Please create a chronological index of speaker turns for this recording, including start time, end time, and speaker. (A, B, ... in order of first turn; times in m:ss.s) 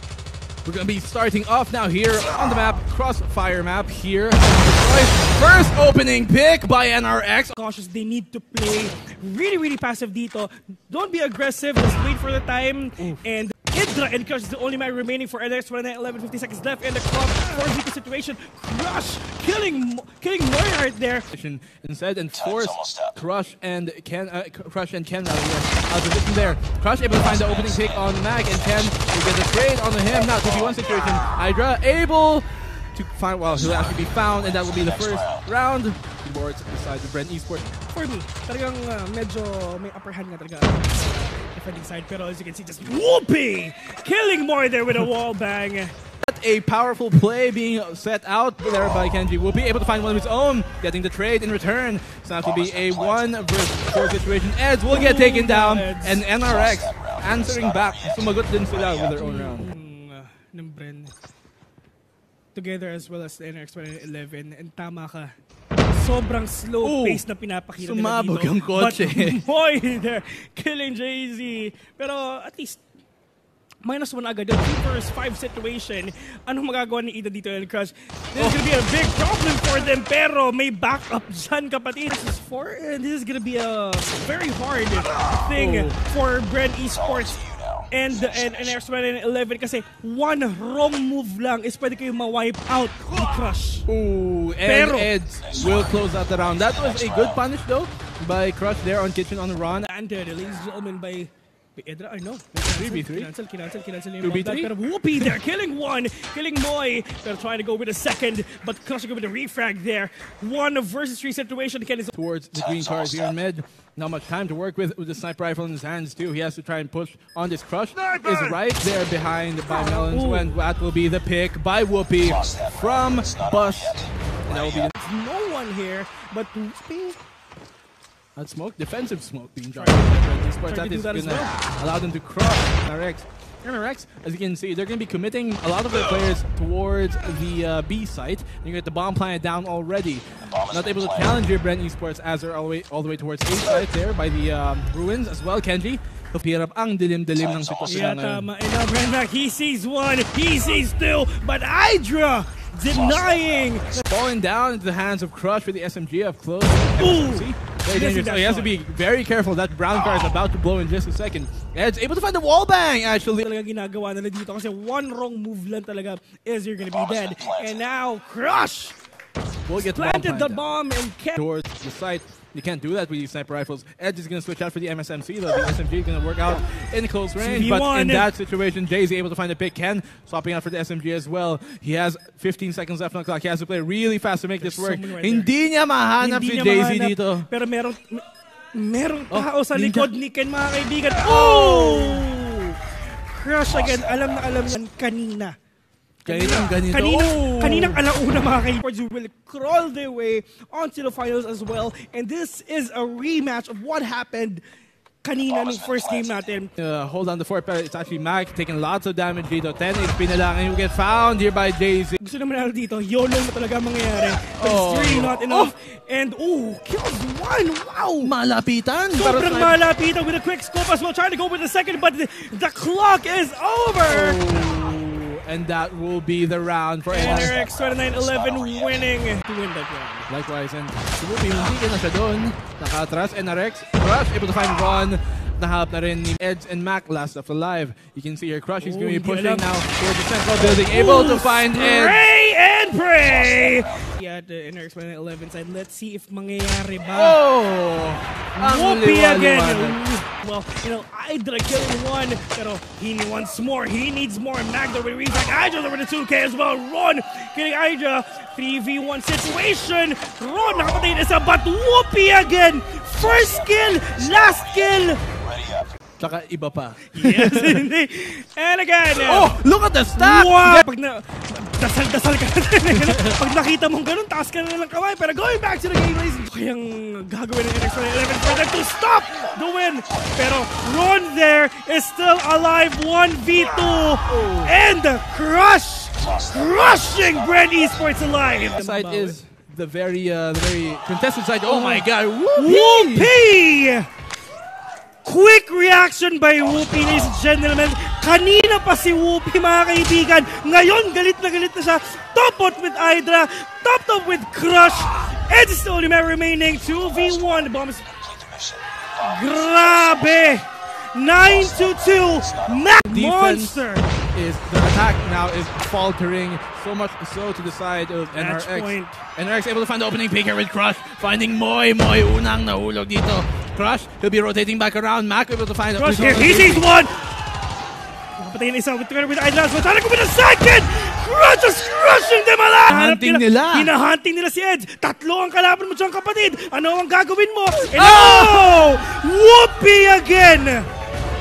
0:00.6-0:07.6 A
0:07.5-0:21.3 B
0:21.3-0:37.7 A
0:37.9-0:45.9 B
0:46.2-0:59.7 A
0:54.9-0:56.2 B
0:59.2-1:01.1 B
1:02.6-1:05.3 B
1:05.9-1:12.8 B
1:06.8-1:07.2 A
1:07.8-1:09.4 A
1:13.8-1:33.9 B
1:25.5-1:25.9 A
1:33.9-1:39.9 A
1:34.6-1:35.1 B
1:39.7-1:52.1 B
1:42.5-1:43.3 A
1:44.2-1:44.7 A
1:52.1-2:04.9 A
1:58.0-1:58.6 B
1:59.7-2:00.5 B
2:05.0-2:07.2 B
2:08.4-2:28.4 A
2:09.8-2:11.6 B
2:27.9-2:34.0 B
2:34.1-2:43.5 A
2:36.9-2:38.8 B
2:43.4-2:49.0 B
2:49.7-2:50.6 A
2:49.9-2:51.4 B
2:51.3-3:07.5 A
2:57.4-2:58.3 B
3:04.6-3:05.5 B
3:06.2-3:15.6 B
3:09.3-3:10.1 A
3:11.1-3:12.3 A
3:16.2-3:18.0 A
3:16.3-3:24.6 B
3:25.2-3:26.7 B
3:26.8-3:32.2 A
3:32.2-3:38.3 B
3:34.6-3:35.7 A
3:38.2-3:39.8 A
3:39.1-3:44.4 B
3:44.0-3:47.6 A
3:47.1-3:50.3 B
3:50.3-4:02.3 A
3:58.8-3:59.7 B
4:00.6-4:07.4 B
4:07.1-4:10.0 A
4:08.6-4:25.2 B
4:26.2-4:27.9 A
4:27.1-4:29.6 B
4:29.1-4:30.9 A
4:30.2-4:49.4 B
4:32.9-4:33.4 A
4:44.3-4:44.7 A
4:48.7-4:53.3 A
4:51.6-4:54.1 B
4:55.2-5:08.1 B
5:09.2-5:14.1 B
5:13.0-5:13.8 A
5:14.3-5:26.9 A
5:18.3-5:19.2 B
5:26.0-5:27.3 B
5:28.4-5:40.9 B
5:32.9-5:33.9 A
5:37.9-5:38.8 A